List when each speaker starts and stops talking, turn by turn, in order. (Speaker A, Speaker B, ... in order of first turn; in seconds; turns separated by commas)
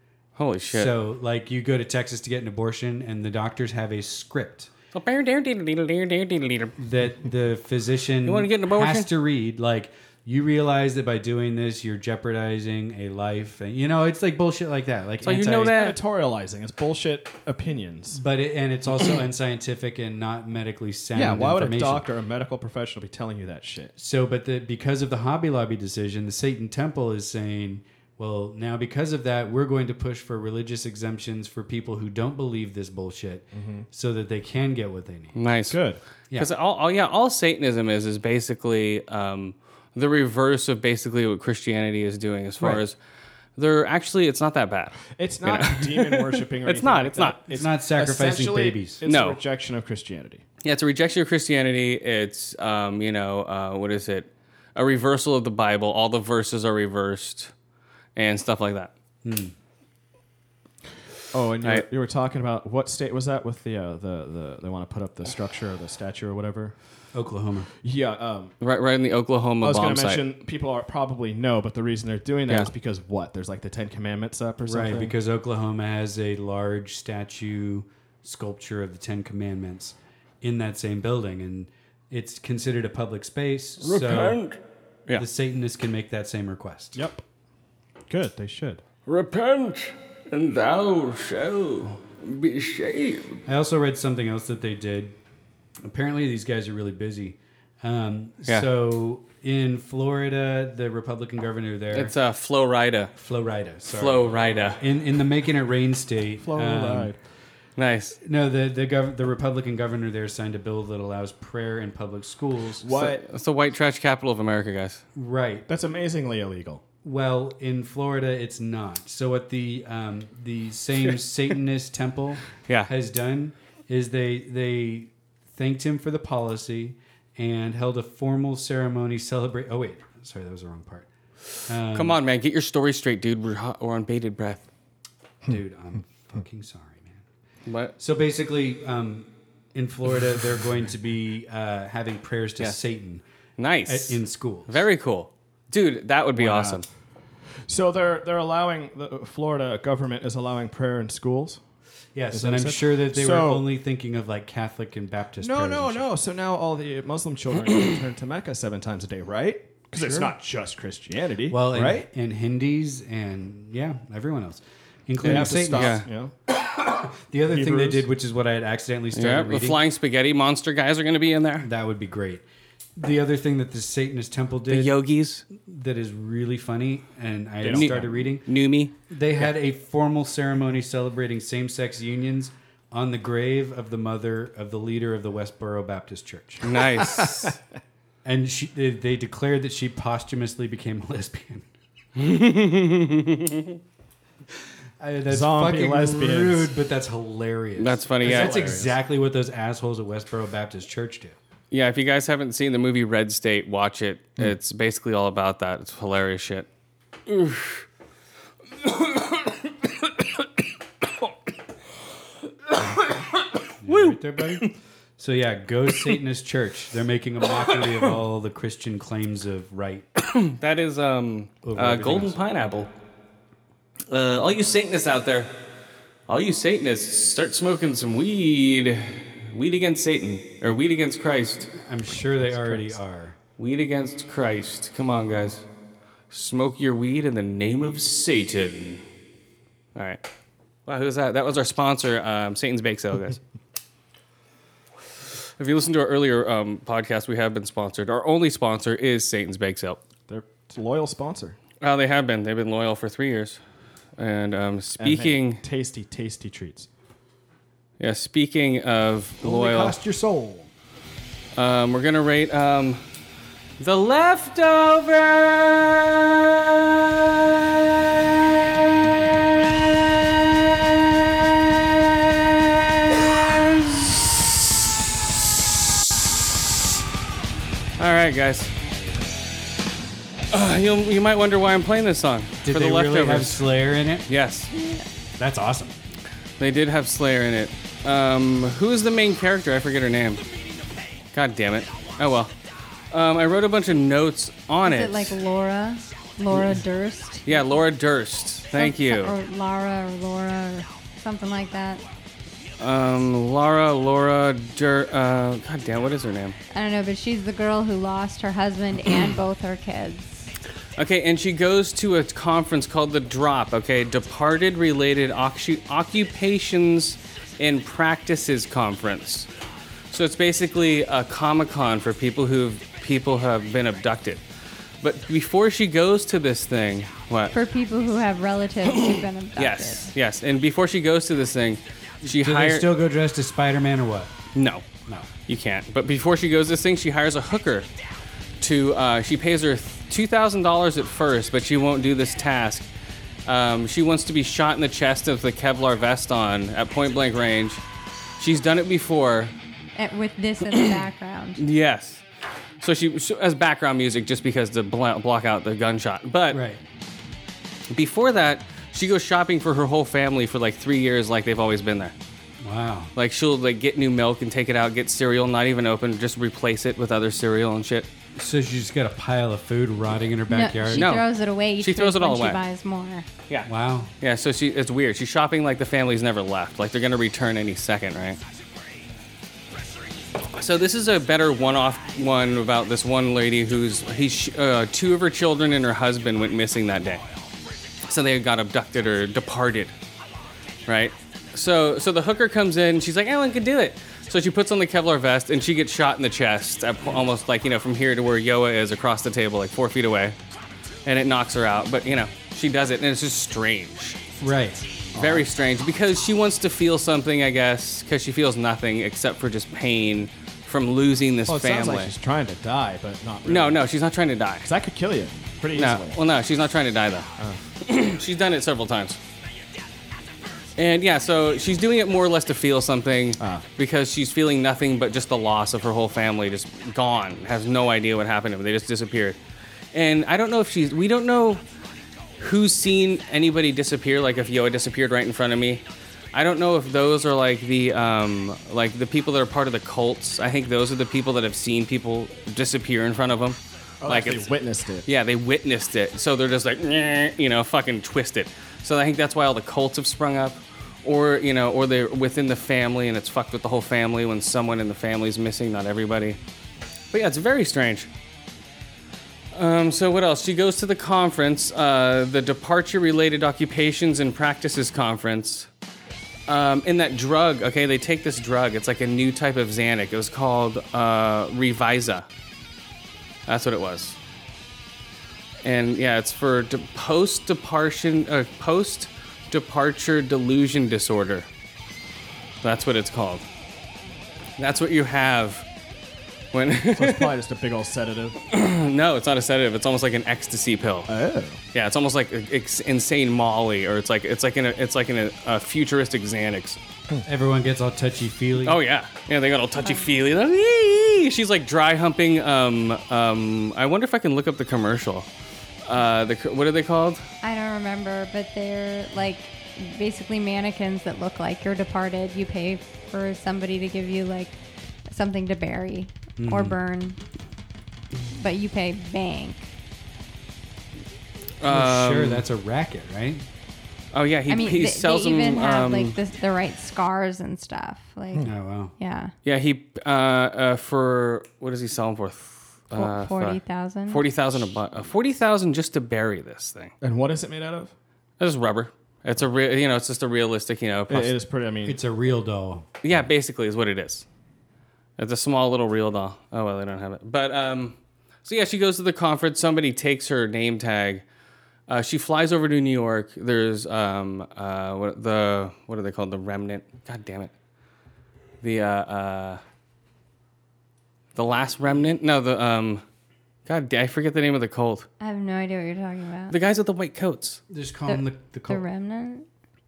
Speaker A: 0.3-0.9, Speaker B: 0.7-4.7, Speaker A: 4.9-6.7, Speaker B: 6.8-15.7, Speaker A: 8.2-9.1, Speaker A: 15.2-16.0, Speaker C: 15.7-18.2, Speaker B: 18.1-22.1, Speaker C: 21.1-23.9, Speaker B: 24.0-35.3, Speaker C: 33.5-33.9, Speaker A: 35.3-35.8, Speaker C: 35.7-36.0, Speaker A: 36.3-43.0, Speaker A: 43.5-47.4, Speaker C: 45.1-50.4, Speaker B: 47.5-49.0, Speaker A: 49.0-49.4, Speaker A: 50.6-57.5, Speaker A: 58.1-58.9, Speaker B: 59.2-59.5, Speaker C: 61.3-66.7, Speaker B: 67.1-67.7, Speaker C: 67.8-68.5, Speaker A: 68.6-70.2, Speaker C: 69.6-75.1, Speaker B: 74.6-84.4, Speaker A: 83.8-85.2, Speaker B: 85.1-87.0, Speaker C: 86.9-87.2, Speaker C: 88.1-88.8, Speaker A: 89.1-93.4, Speaker B: 93.5-95.2, Speaker B: 95.8-102.1, Speaker A: 101.9-103.1, Speaker B: 103.2-107.1, Speaker A: 103.9-104.8, Speaker C: 106.4-107.2, Speaker A: 107.8-108.2, Speaker B: 108.2-112.9, Speaker C: 112.8-113.2, Speaker A: 112.9-115.0, Speaker B: 115.1-115.7, Speaker C: 115.7-116.8, Speaker B: 117.0-131.1, Speaker B: 131.7-132.2, Speaker A: 131.9-134.7, Speaker B: 135.4-137.2, Speaker A: 137.7-137.9, Speaker B: 138.0-143.2, Speaker A: 143.6-146.8, Speaker B: 143.8-144.8, Speaker B: 146.4-146.8, Speaker C: 147.7-151.6, Speaker B: 152.1-156.1, Speaker C: 152.3-153.7, Speaker C: 155.4-162.0, Speaker B: 160.0-160.3, Speaker B: 161.5-169.8, Speaker C: 165.2-166.3, Speaker A: 165.2-166.1, Speaker C: 167.5-168.0, Speaker A: 169.1-171.7, Speaker B: 171.6-172.4, Speaker B: 173.0-175.0, Speaker A: 174.7-175.4, Speaker B: 175.5-178.5, Speaker C: 177.6-178.1, Speaker A: 177.7-178.9, Speaker B: 179.0-186.8, Speaker A: 186.6-187.6, Speaker B: 188.2-191.7, Speaker A: 192.2-193.8, Speaker B: 195.0-201.3, Speaker C: 195.3-196.7, Speaker A: 197.8-198.8, Speaker C: 198.2-198.9, Speaker A: 201.7-206.7, Speaker A: 207.3-207.8, Speaker A: 212.7-213.2, Speaker B: 213.8-220.1, Speaker A: 213.8-214.7, Speaker A: 220.3-222.9, Speaker B: 221.6-222.3, Speaker A: 224.1-225.5, Speaker A: 226.3-231.7, Speaker B: 231.7-233.3, Speaker A: 233.6-235.6, Speaker A: 236.3-239.0, Speaker A: 239.9-240.2, Speaker A: 240.8-243.4, Speaker A: 245.6-250.0, Speaker C: 250.3-251.6, Speaker A: 251.8-253.6, Speaker A: 254.2-255.6, Speaker C: 255.0-256.9, Speaker A: 258.0-259.9, Speaker B: 259.4-260.7, Speaker A: 261.6-263.0, Speaker A: 263.8-274.2, Speaker A: 278.0-278.7, Speaker A: 280.5-283.6, Speaker B: 282.6-284.3, Speaker A: 284.3-284.7, Speaker D: 284.7-285.0, Speaker B: 285.4-286.0, Speaker A: 286.6-290.4, Speaker A: 291.3-292.5, Speaker A: 293.1-295.3, Speaker D: 294.8-297.6, Speaker A: 297.4-299.3, Speaker D: 298.8-302.0, Speaker A: 302.8-306.6, Speaker D: 306.7-310.5, Speaker A: 311.0-319.5, Speaker A: 320.1-324.4, Speaker A: 325.0-327.5, Speaker D: 327.5-330.1, Speaker A: 328.8-332.9, Speaker B: 332.2-334.3, Speaker A: 334.5-334.9, Speaker A: 335.5-337.9, Speaker A: 338.6-342.9, Speaker A: 343.4-347.8, Speaker A: 348.4-349.5, Speaker D: 349.9-351.6, Speaker A: 351.6-352.2, Speaker A: 352.8-356.6, Speaker B: 356.5-356.8, Speaker A: 357.9-362.1, Speaker B: 362.6-363.1, Speaker A: 363.1-368.1, Speaker B: 368.3-371.2, Speaker D: 370.5-373.2, Speaker A: 370.9-371.3, Speaker A: 371.8-372.6, Speaker B: 373.6-374.1, Speaker A: 374.2-378.4, Speaker A: 380.5-387.2, Speaker A: 388.1-389.9, Speaker A: 390.9-400.4, Speaker A: 401.0-404.2, Speaker B: 404.4-404.9, Speaker A: 405.1-412.1, Speaker C: 411.5-413.8, Speaker A: 413.4-414.7, Speaker C: 414.6-416.2, Speaker A: 415.7-417.3, Speaker A: 417.8-419.2, Speaker A: 420.8-429.4, Speaker C: 423.4-423.6, Speaker A: 429.9-431.6, Speaker A: 432.4-444.5, Speaker C: 444.0-445.1, Speaker A: 445.1-456.4, Speaker A: 457.1-458.1, Speaker A: 459.5-465.7, Speaker A: 466.5-472.3, Speaker A: 473.5-474.2, Speaker A: 475.6-481.5, Speaker A: 482.6-483.4, Speaker A: 484.6-485.6, Speaker A: 486.5-487.3, Speaker C: 486.9-488.4, Speaker A: 488.5-491.1, Speaker C: 491.1-491.6, Speaker A: 491.7-496.8, Speaker B: 497.2-498.8, Speaker A: 498.6-505.3, Speaker D: 499.8-500.1, Speaker A: 505.8-507.2, Speaker D: 507.4-514.5, Speaker D: 515.1-517.2, Speaker B: 516.4-516.8, Speaker D: 518.3-519.7, Speaker A: 521.6-522.4, Speaker B: 521.6-523.5, Speaker A: 524.1-526.2, Speaker D: 524.5-529.3, Speaker B: 528.4-528.9, Speaker A: 529.4-536.9, Speaker D: 532.9-534.2, Speaker C: 537.0-537.9, Speaker A: 538.4-541.3, Speaker C: 541.1-542.0, Speaker B: 541.8-542.9, Speaker A: 543.0-544.2, Speaker A: 545.2-551.2, Speaker A: 551.9-557.5, Speaker A: 558.6-559.6, Speaker A: 561.4-563.0, Speaker A: 563.6-565.1, Speaker D: 565.2-566.6, Speaker A: 566.5-567.6, Speaker B: 567.7-568.8, Speaker D: 568.0-569.5